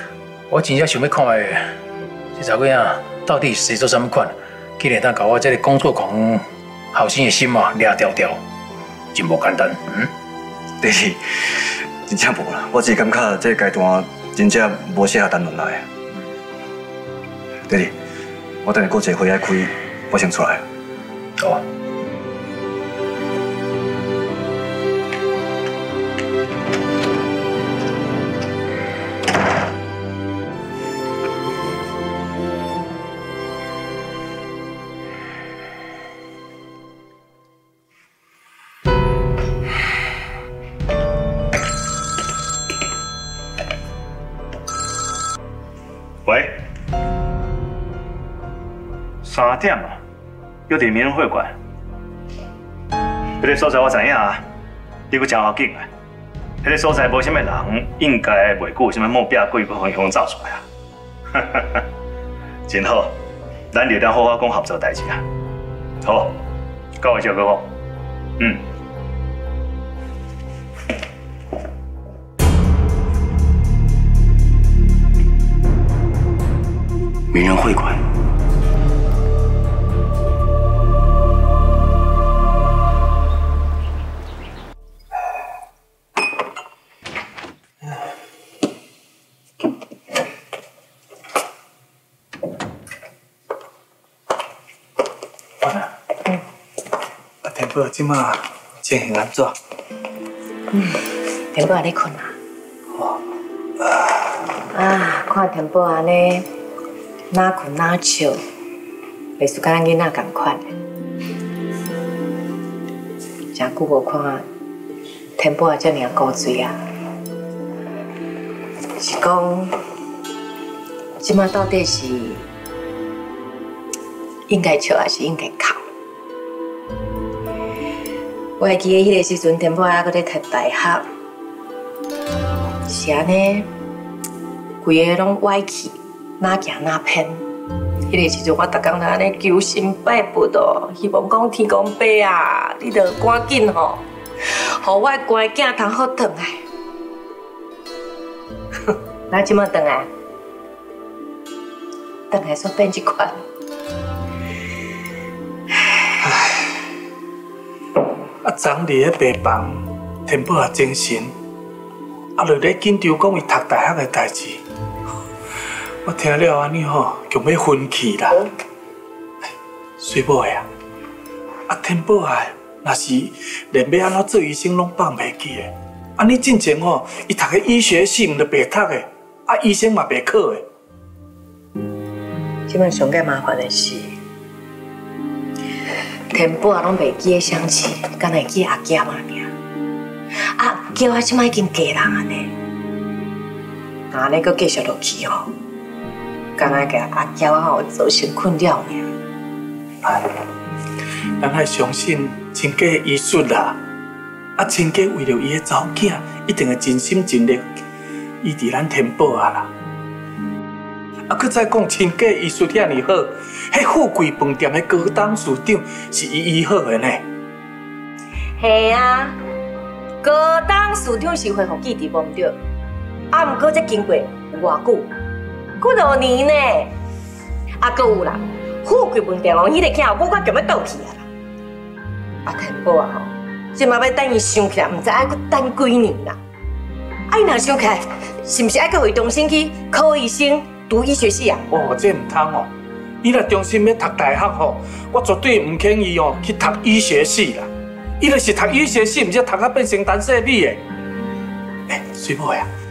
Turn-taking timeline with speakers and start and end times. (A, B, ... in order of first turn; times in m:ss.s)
0:00.5-0:01.7 A
0:02.4-0:08.4 A
0:09.1-0:10.1 A
0:10.8-0:15.9 B
0:17.7-0:18.0 B
0:18.6-0:20.6 B
0:46.3-0:46.6 C
0:49.2-0:50.0 C
0:50.7-0:51.5 C
0:53.4-0:54.4 C
0:55.1-0:55.9 C
0:56.6-1:00.6 C
1:01.3-1:01.8 C
1:02.7-1:03.2 C
1:03.7-1:05.2 C
1:06.0-1:06.4 C
1:07.0-1:07.7 C
1:17.3-1:18.0 B
1:37.4-1:39.6 D
1:40.7-1:42.4 E
1:44.7-1:46.5 E
1:47.3-1:48.4 E
1:49.4-1:50.7 E
1:53.5-1:54.4 E
1:55.4-1:56.8 E
1:59.0-1:59.7 E
2:01.2-2:02.4 E
2:04.5-2:05.8 E
2:08.6-2:11.1 E
2:12.9-2:13.7 E
2:14.8-2:17.5 E
2:18.1-2:26.6 E
2:29.3-2:30.1 E
2:32.3-2:33.4 E
2:36.2-2:36.6 D
2:38.4-2:41.3 D
2:42.4-2:44.6 D
2:46.0-2:48.4 D
2:50.0-2:50.7 D
2:51.7-3:00.6 D
3:02.7-3:04.2 E
3:06.3-3:09.5 E
3:10.6-3:12.5 E
3:14.1-3:15.5 E
3:16.6-3:19.1 E
3:20.0-3:20.3 D
3:21.4-3:23.8 D
3:24.6-3:27.8 D
3:28.4-3:29.7 D
3:31.3-3:37.2 D
3:38.6-3:39.4 E
3:40.2-3:42.6 E
3:43.3-3:45.1 E
3:45.8-3:46.9 E
3:47.8-3:51.2 E
3:52.5-3:56.4 E
3:57.3-4:01.7 E
4:01.7-4:02.7 D
4:03.2-4:10.8 D
4:11.9-4:12.7 D